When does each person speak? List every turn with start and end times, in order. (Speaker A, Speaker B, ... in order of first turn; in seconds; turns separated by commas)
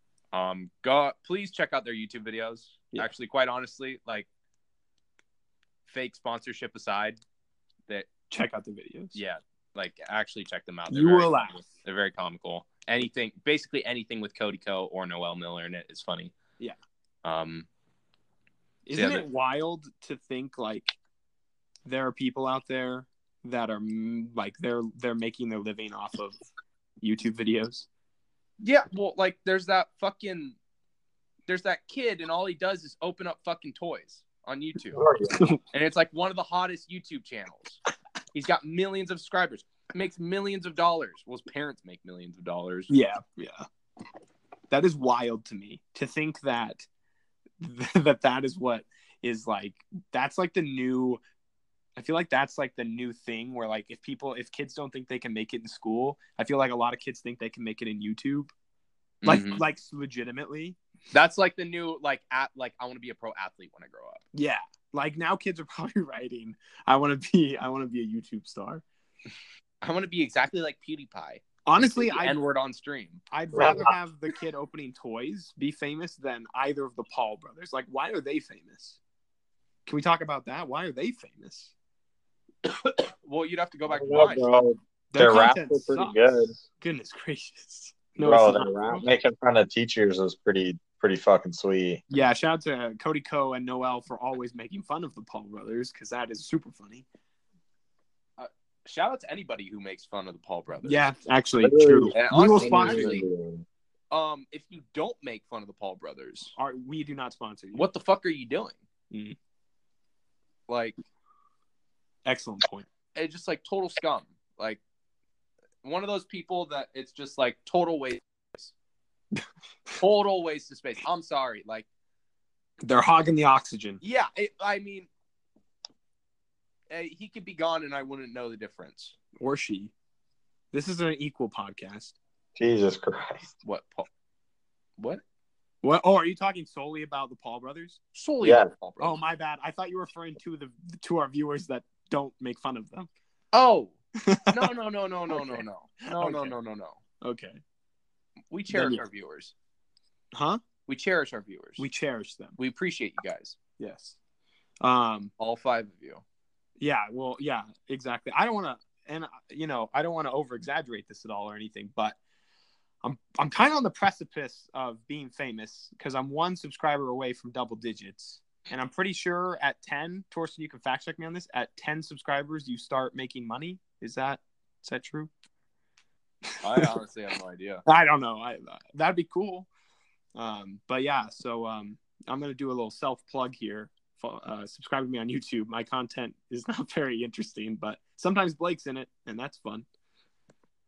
Speaker A: 0.3-4.3, Speaker A: 5.8-7.2, Speaker B: 8.3-9.2, Speaker A: 9.1-16.3, Speaker B: 10.9-11.7, Speaker A: 17.2-17.7, Speaker B: 18.9-21.0, Speaker A: 18.9-19.2, Speaker B: 21.9-26.4, Speaker B: 27.0-27.9, Speaker A: 28.6-30.6, Speaker A: 31.5-35.0, Speaker C: 34.9-35.5, Speaker A: 35.7-37.8, Speaker A: 38.3-42.9, Speaker B: 42.9-43.6, Speaker B: 44.7-46.9, Speaker B: 47.6-51.2, Speaker B: 52.0-58.5, Speaker A: 59.2-59.6, Speaker B: 59.2-60.8, Speaker A: 61.1-64.2, Speaker B: 64.3-68.8, Speaker A: 69.8-73.2, Speaker B: 71.6-72.4, Speaker B: 73.3-79.0, Speaker C: 73.5-73.9, Speaker B: 79.8-81.7, Speaker A: 83.2-84.5, Speaker C: 83.9-86.5, Speaker B: 85.1-89.1, Speaker C: 88.2-92.0, Speaker B: 92.1-97.0, Speaker A: 98.4-101.0, Speaker B: 100.8-103.2, Speaker C: 101.6-103.6, Speaker A: 102.1-103.2, Speaker A: 104.1-106.5, Speaker B: 106.5-107.9, Speaker A: 107.7-108.8, Speaker B: 109.1-109.3, Speaker A: 110.7-110.9, Speaker B: 112.2-112.8, Speaker A: 113.1-114.8, Speaker A: 115.8-118.7, Speaker A: 120.0-121.8, Speaker B: 122.8-124.0, Speaker A: 124.0-125.1, Speaker A: 126.9-129.2, Speaker B: 129.4-129.9, Speaker B: 130.7-132.2, Speaker C: 132.6-133.5, Speaker A: 133.6-134.1, Speaker B: 135.8-138.0, Speaker A: 138.1-139.2, Speaker C: 138.4-138.7, Speaker B: 139.0-143.1, Speaker A: 143.5-143.9, Speaker B: 144.2-144.7, Speaker A: 144.5-147.0, Speaker B: 145.3-146.5, Speaker B: 147.2-147.6, Speaker A: 148.5-149.5, Speaker B: 148.7-149.0, Speaker B: 150.3-150.6, Speaker A: 150.9-151.8, Speaker B: 151.8-152.6, Speaker A: 152.6-153.6, Speaker B: 153.8-154.2, Speaker B: 154.8-155.3, Speaker A: 155.4-156.2, Speaker B: 156.8-162.2, Speaker B: 163.0-175.3, Speaker B: 176.5-176.9, Speaker A: 176.6-177.8, Speaker B: 177.8-179.7, Speaker B: 180.3-189.8